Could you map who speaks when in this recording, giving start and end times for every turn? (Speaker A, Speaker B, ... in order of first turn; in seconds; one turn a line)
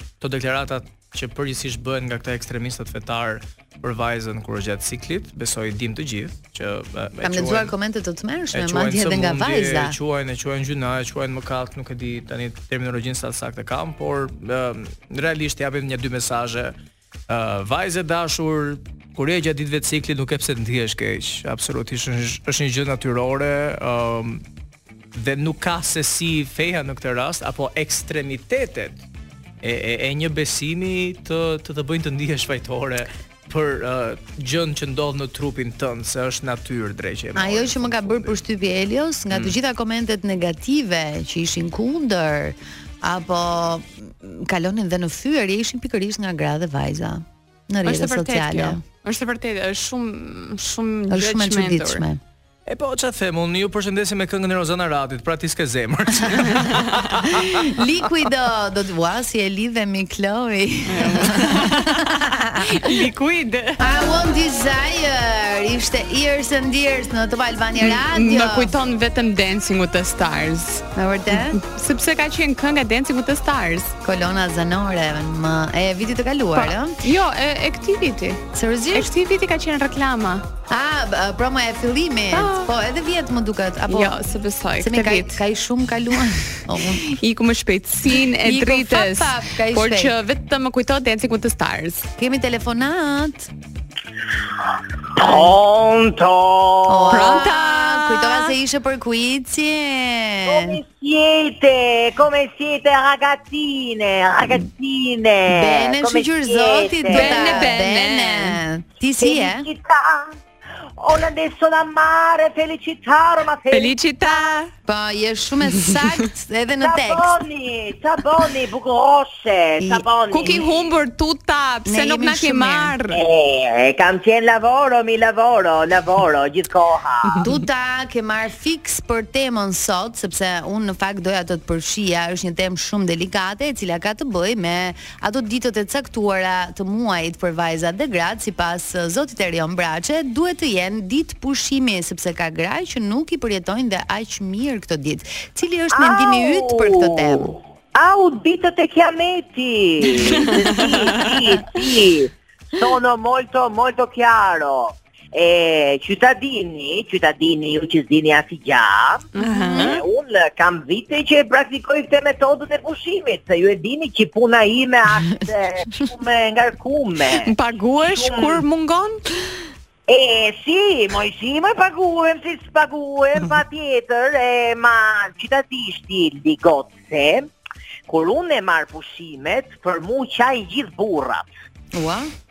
Speaker A: 0.2-7.7
Speaker B: 7.2-10.0
Speaker A: 8.5-16.8
Speaker A: 17.3-24.4
Speaker A: 25.1-29.0
Speaker A: 29.6-38.4
Speaker B: 37.4-48.8
Speaker C: 47.9-52.0
Speaker B: 51.1-52.2
Speaker A: 52.7-57.8
Speaker B: 57.0-63.0
Speaker C: 60.9-62.0
Speaker C: 62.6-63.9
Speaker B: 63.8-68.7
Speaker C: 67.8-70.8
Speaker B: 71.0-71.6
Speaker C: 71.5-73.9
Speaker B: 74.0-77.0
Speaker C: 76.5-78.4
Speaker B: 78.5-79.1
Speaker C: 78.9-80.4
Speaker B: 80.7-84.2
Speaker C: 82.3-82.7
Speaker C: 83.9-85.4
Speaker B: 84.8-87.2
Speaker C: 87.0-92.1
Speaker B: 88.2-90.1
Speaker B: 92.2-93.5
Speaker D: 95.2-97.4
Speaker B: 95.2-95.6
Speaker B: 96.9-100.8
Speaker C: 97.1-98.5
Speaker D: 100.5-107.7
Speaker B: 105.5-109.7
Speaker C: 107.1-108.6
Speaker D: 109.2-110.4
Speaker D: 111.0-114.5
Speaker C: 113.7-114.7
Speaker B: 114.9-117.4
Speaker D: 116.8-120.7
Speaker B: 119.8-120.6
Speaker C: 120.3-123.2
Speaker B: 121.9-123.0
Speaker D: 123.1-127.5
Speaker B: 127.4-147.6
Speaker D: 145.9-167.5
Speaker C: 150.2-151.3
Speaker C: 159.3-160.0
Speaker B: 159.4-160.0
Speaker C: 167.4-169.2
Speaker D: 168.1-168.6
Speaker D: 170.1-177.5
Speaker D: 178.1-181.5
Speaker B: 181.9-182.3